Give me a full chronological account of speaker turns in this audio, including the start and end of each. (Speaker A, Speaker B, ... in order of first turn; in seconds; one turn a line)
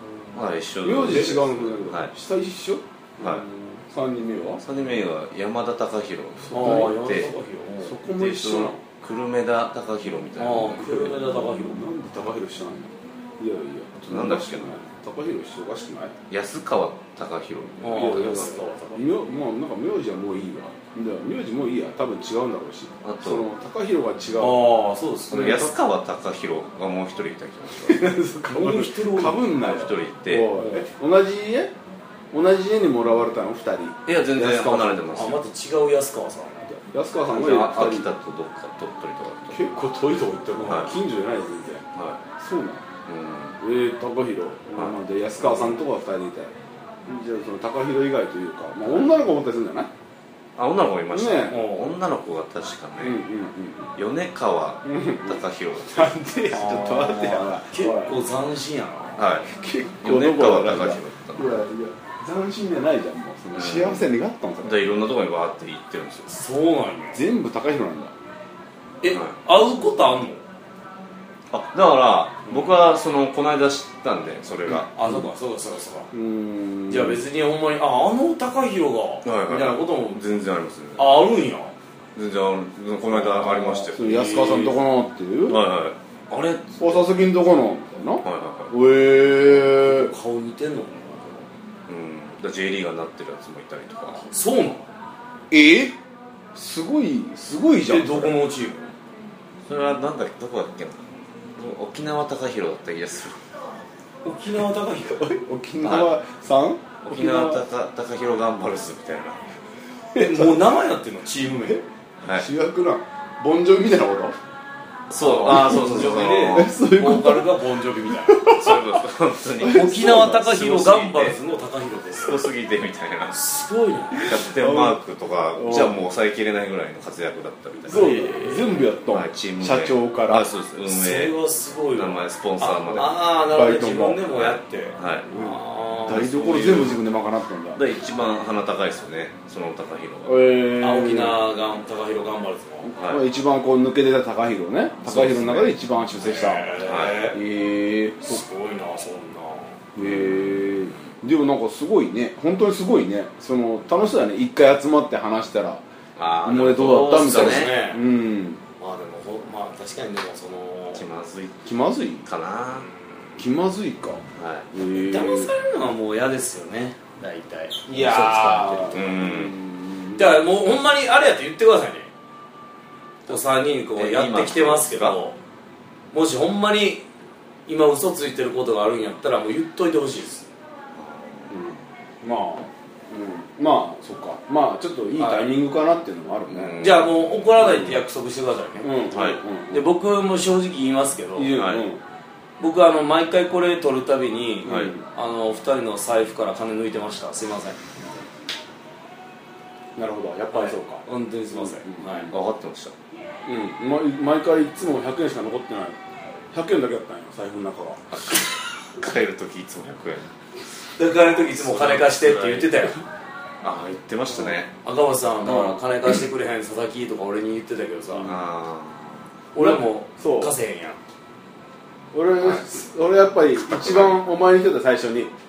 Speaker A: 0.1-0.4
Speaker B: 0.3-2.1
Speaker C: 0.8-4.6
Speaker A: 1.0-1.3
Speaker B: 4.6-7.3
Speaker C: 6.4-7.0
Speaker A: 6.5-8.0
Speaker C: 7.8-8.8
Speaker B: 8.2-10.9
Speaker A: 10.4-11.8
Speaker C: 10.6-16.1
Speaker B: 14.0-14.8
Speaker B: 16.3-18.6
Speaker A: 17.8-19.1
Speaker C: 17.9-24.7
Speaker B: 23.0-23.4
Speaker A: 24.4-25.7
Speaker B: 25.3-28.2
Speaker C: 27.8-31.7
Speaker A: 28.5-29.5
Speaker B: 29.5-30.5
Speaker A: 30.6-30.9
Speaker C: 32.3-35.1
Speaker B: 34.0-35.4
Speaker A: 35.1-36.7
Speaker C: 36.7-38.1
Speaker B: 37.3-39.7
Speaker C: 39.5-41.8
Speaker B: 40.6-41.0
Speaker B: 41.9-42.2
Speaker C: 42.4-42.8
Speaker B: 43.0-43.6
Speaker C: 43.6-46.5
Speaker B: 44.8-45.7
Speaker C: 47.1-49.9
Speaker B: 50.6-53.2
Speaker C: 51.1-51.6
Speaker A: 51.5-52.0
Speaker C: 53.0-53.9
Speaker B: 54.0-57.3
Speaker C: 54.8-58.1
Speaker A: 56.5-59.2
Speaker B: 59.2-59.5
Speaker C: 59.4-64.9
Speaker B: 60.0-61.6
Speaker B: 63.5-66.3
Speaker A: 66.3-67.2
Speaker C: 67.1-68.1
Speaker A: 69.0-70.4
Speaker B: 69.0-69.3
Speaker B: 71.5-74.9
Speaker A: 72.5-72.8
Speaker A: 74.8-76.1
Speaker C: 76.1-77.2
Speaker A: 76.9-80.2
Speaker B: 79.2-81.1
Speaker A: 81.0-81.7
Speaker B: 82.2-84.0
Speaker A: 83.1-84.8
Speaker C: 83.9-85.6
Speaker B: 85.5-86.0
Speaker A: 86.3-87.2
Speaker C: 86.8-90.1
Speaker B: 88.2-88.7
Speaker A: 89.4-91.5
Speaker B: 91.9-94.2
Speaker A: 94.1-94.9
Speaker C: 95.5-96.0
Speaker C: 96.5-98.4
Speaker A: 97.8-98.9
Speaker B: 99.7-101.0
Speaker B: 101.5-103.4
Speaker A: 104.2-105.4
Speaker C: 105.3-107.6
Speaker B: 105.8-106.1
Speaker B: 107.0-109.4
Speaker C: 110.1-110.6
Speaker A: 110.2-111.8
Speaker B: 112.2-112.5
Speaker C: 112.3-114.3
Speaker B: 115.1-116.8
Speaker A: 115.2-118.5
Speaker C: 116.0-119.0
Speaker B: 118.5-121.4
Speaker C: 119.6-120.4
Speaker A: 119.7-122.5
Speaker B: 122.1-123.4
Speaker A: 123.3-124.4
Speaker C: 124.1-125.0
Speaker B: 124.2-128.1
Speaker C: 125.5-126.0
Speaker A: 127.8-128.9
Speaker C: 127.9-130.5
Speaker B: 129.1-131.4
Speaker A: 130.9-137.0
Speaker B: 131.9-133.2
Speaker C: 133.5-134.2
Speaker B: 134.3-135.3
Speaker C: 135.3-137.8
Speaker B: 136.5-136.9
Speaker B: 137.7-140.5
Speaker C: 140.2-141.4
Speaker A: 140.8-142.9
Speaker C: 142.8-146.7
Speaker B: 145.0-145.7
Speaker A: 146.2-147.4
Speaker B: 146.8-147.3
Speaker C: 147.3-148.4
Speaker A: 148.2-149.8
Speaker C: 149.9-155.8
Speaker B: 150.0-150.9
Speaker B: 156.2-157.8
Speaker C: 156.4-158.6
Speaker A: 157.1-158.0
Speaker A: 158.8-161.1
Speaker B: 160.9-161.7
Speaker C: 161.6-162.3
Speaker B: 162.2-162.9
Speaker C: 163.4-165.5
Speaker B: 164.3-164.7
Speaker A: 164.9-169.0
Speaker C: 167.9-170.5
Speaker B: 167.9-169.6
Speaker A: 170.2-172.1
Speaker A: 173.3-175.4
Speaker B: 173.9-175.2
Speaker A: 176.1-177.1
Speaker A: 177.7-180.5
Speaker B: 180.9-181.7
Speaker C: 181.5-186.8
Speaker A: 185.2-185.5
Speaker B: 186.5-187.8
Speaker A: 186.8-189.1
Speaker C: 187.6-187.9
Speaker C: 188.8-189.9
Speaker B: 189.1-189.4
Speaker A: 189.7-191.6
Speaker C: 191.3-192.0
Speaker B: 191.5-191.8
Speaker A: 192.6-197.9
Speaker C: 194.6-195.0
Speaker B: 194.7-194.9
Speaker C: 199.9-202.3
Speaker A: 200.5-202.3
Speaker B: 202.3-202.9
Speaker C: 203.4-206.0
Speaker C: 206.5-208.2
Speaker B: 208.9-210.3
Speaker A: 211.0-213.0
Speaker B: 211.0-212.8
Speaker B: 213.6-214.7
Speaker A: 214.8-218.3
Speaker B: 218.2-219.2
Speaker C: 219.5-220.5
Speaker A: 219.6-221.0
Speaker C: 222.1-225.3
Speaker B: 222.4-222.7
Speaker B: 223.7-224.2